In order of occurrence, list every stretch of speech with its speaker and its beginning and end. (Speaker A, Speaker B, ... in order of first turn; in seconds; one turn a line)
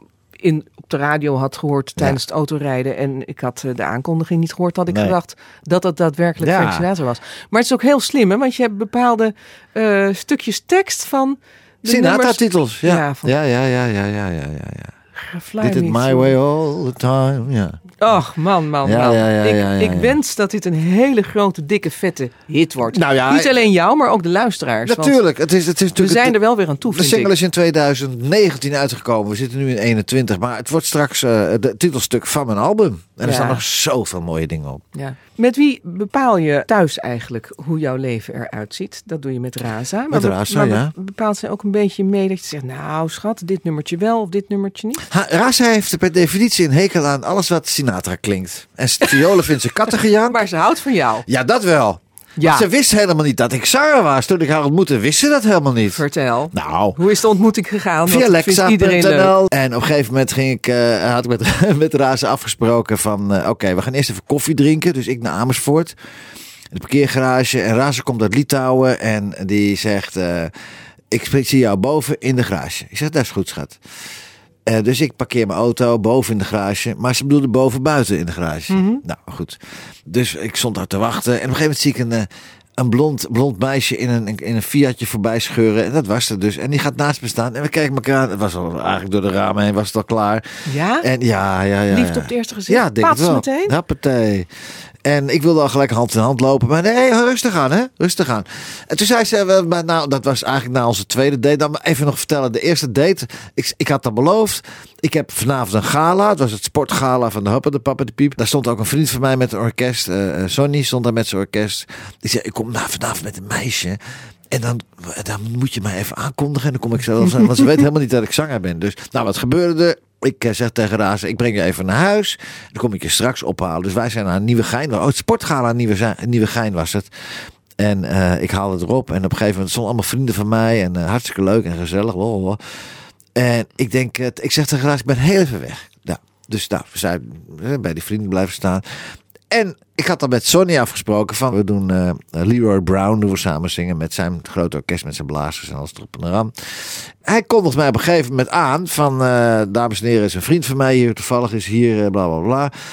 Speaker A: 0.4-13.3
Speaker B: 4.9-5.2
Speaker B: 6.4-6.9
Speaker B: 11.8-14.9
Speaker A: 15.2-16.3
Speaker B: 15.6-17.8
Speaker A: 18.0-25.2
Speaker B: 18.8-20.1
Speaker B: 22.8-23.6
Speaker B: 24.8-26.4
Speaker A: 26.0-27.3
Speaker B: 26.9-34.8
Speaker A: 33.2-33.6
Speaker A: 34.9-45.0
Speaker B: 40.1-40.9
Speaker B: 45.1-50.5
Speaker A: 49.0-49.3
Speaker A: 50.3-51.2
Speaker B: 51.3-57.0
Speaker A: 52.4-52.6
Speaker A: 55.9-59.3
Speaker B: 58.1-65.9
Speaker B: 66.7-70.5
Speaker B: 71.1-73.8
Speaker B: 74.7-90.4
Speaker A: 78.7-79.0
Speaker A: 90.7-91.0
Speaker B: 91.0-94.5
Speaker A: 91.9-93.7
Speaker B: 95.0-114.0
Speaker B: 114.5-127.1
Speaker B: 127.8-132.6
Speaker B: 133.3-152.7